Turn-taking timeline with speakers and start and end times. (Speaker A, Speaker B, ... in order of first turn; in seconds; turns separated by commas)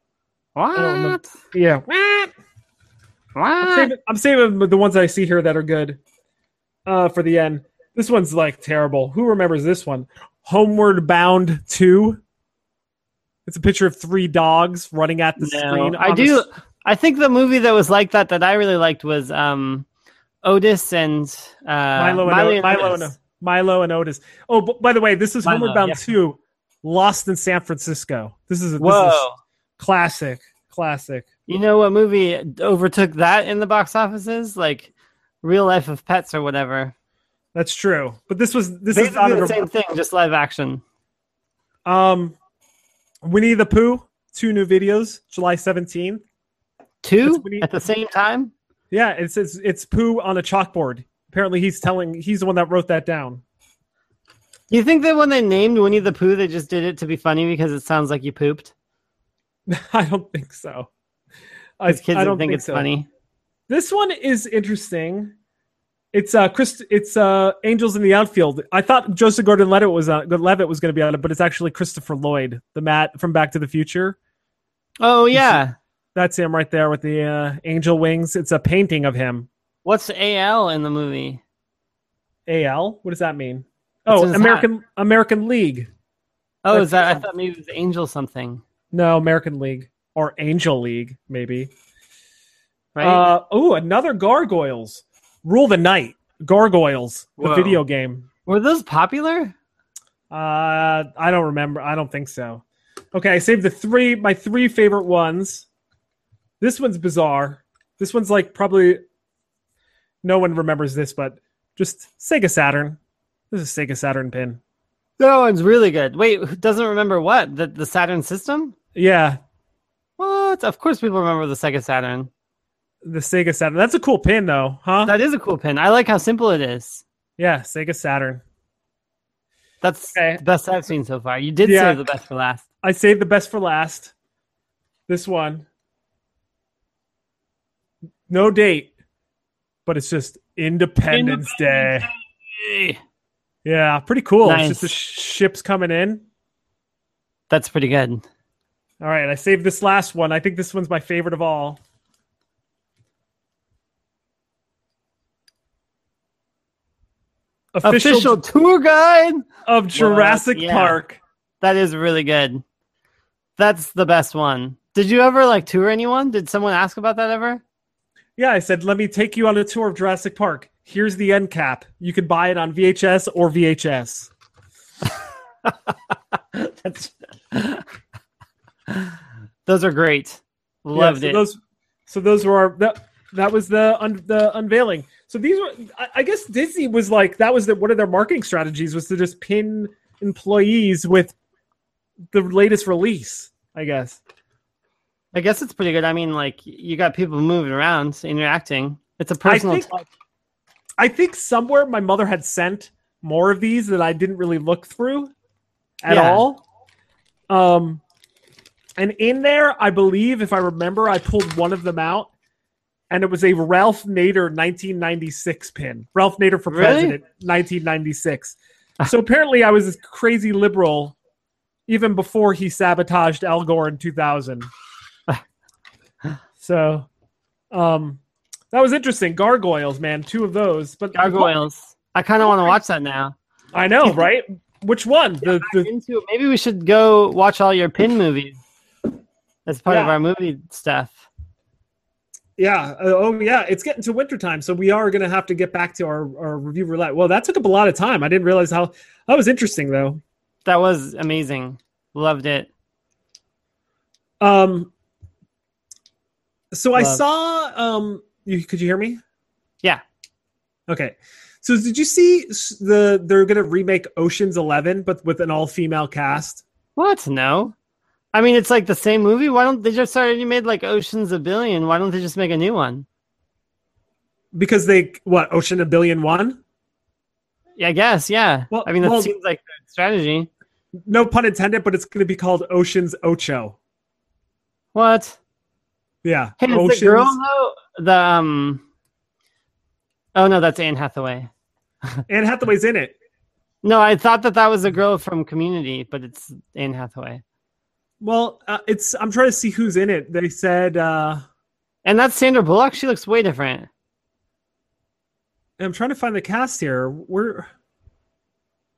Speaker A: 0.6-1.3, Speaker B: 0.8-2.3, Speaker A: 3.4-3.9, Speaker B: 3.6-6.0, Speaker B: 6.9-12.2, Speaker B: 13.5-16.4, Speaker A: 15.4-19.9, Speaker A: 20.4-23.1, Speaker B: 22.0-29.3, Speaker A: 25.4-26.0, Speaker A: 28.8-29.4, Speaker B: 29.8-31.3, Speaker A: 31.5-34.9, Speaker A: 35.4-36.9, Speaker B: 37.5-39.6, Speaker A: 38.9-40.8, Speaker B: 41.9-42.4, Speaker B: 43.2-46.2, Speaker A: 47.0-48.5, Speaker B: 47.2-47.7, Speaker B: 48.9-53.4, Speaker A: 54.7-58.7, Speaker B: 59.7-60.9, Speaker B: 61.8-62.9, Speaker A: 61.9-63.1, Speaker B: 63.7-65.3, Speaker B: 66.1-74.2, Speaker A: 75.0-75.8, Speaker B: 75.3-75.6, Speaker B: 76.2-79.5, Speaker A: 79.8-81.4, Speaker B: 82.5-85.9, Speaker A: 84.1-84.7, Speaker A: 86.7-88.6, Speaker B: 86.7-87.2, Speaker B: 88.9-91.7, Speaker A: 93.0-93.3, Speaker B: 93.0-98.3, Speaker A: 97.4-97.8, Speaker A: 98.5-99.5, Speaker B: 100.3-102.6, Speaker B: 103.1-105.7, Speaker B: 106.6-109.0, Speaker B: 110.2-113.0, Speaker B: 113.5-114.6, Speaker A: 115.2-118.8, Speaker B: 119.0-119.4, Speaker A: 120.2-122.3, Speaker B: 123.0-125.1, Speaker A: 125.0-127.0, Speaker B: 127.4-128.4, Speaker A: 129.8-132.6, Speaker B: 130.1-130.4, Speaker B: 131.6-132.0, Speaker B: 132.8-134.1, Speaker B: 135.1-135.7, Speaker B: 138.3-138.9, Speaker B: 139.9-142.1, Speaker A: 141.1-143.0, Speaker B: 143.7-146.2, Speaker A: 144.4-144.9, Speaker A: 147.5-148.2, Speaker B: 149.0-151.8, Speaker B: 157.7-158.4, Speaker A: 157.8-161.0, Speaker B: 159.7-161.2, Speaker A: 161.6-162.6, Speaker A: 163.6-167.6, Speaker B: 168.4-174.3, Speaker A: 176.5-177.8, Speaker A: 179.7-181.4, Speaker B: 180.9-191.3, Speaker B: 192.3-194.2, Speaker A: 195.3-199.9, Speaker B: 199.4-200.1, Speaker B: 201.0-205.3, Speaker B: 206.0-206.6, Speaker A: 206.1-206.4, Speaker B: 207.5-208.0, Speaker B: 209.0-212.3, Speaker B: 213.1-221.2, Speaker A: 216.7-217.2, Speaker B: 221.9-224.7, Speaker B: 226.6-227.1, Speaker B: 227.7-228.2, Speaker B: 228.7-231.6, Speaker A: 231.1-233.3, Speaker B: 233.7-235.9, Speaker A: 235.4-238.6, Speaker A: 239.7-241.2, Speaker B: 239.9-240.2, Speaker B: 242.6-250.2, Speaker A: 250.7-252.7, Speaker B: 254.4-254.9, Speaker B: 256.7-259.2, Speaker A: 257.0-257.2, Speaker B: 260.9-266.6, Speaker A: 267.0-267.7, Speaker A: 268.3-273.1, Speaker B: 274.5-276.6, Speaker A: 277.8-280.5, Speaker B: 278.7-279.3, Speaker B: 281.1-283.8, Speaker A: 284.9-285.4, Speaker B: 286.2-287.4, Speaker A: 286.6-288.8, Speaker A: 290.4-291.5, Speaker B: 292.3-293.1, Speaker A: 293.8-297.4, Speaker B: 298.2-301.4, Speaker A: 302.1-303.9, Speaker B: 305.8-307.7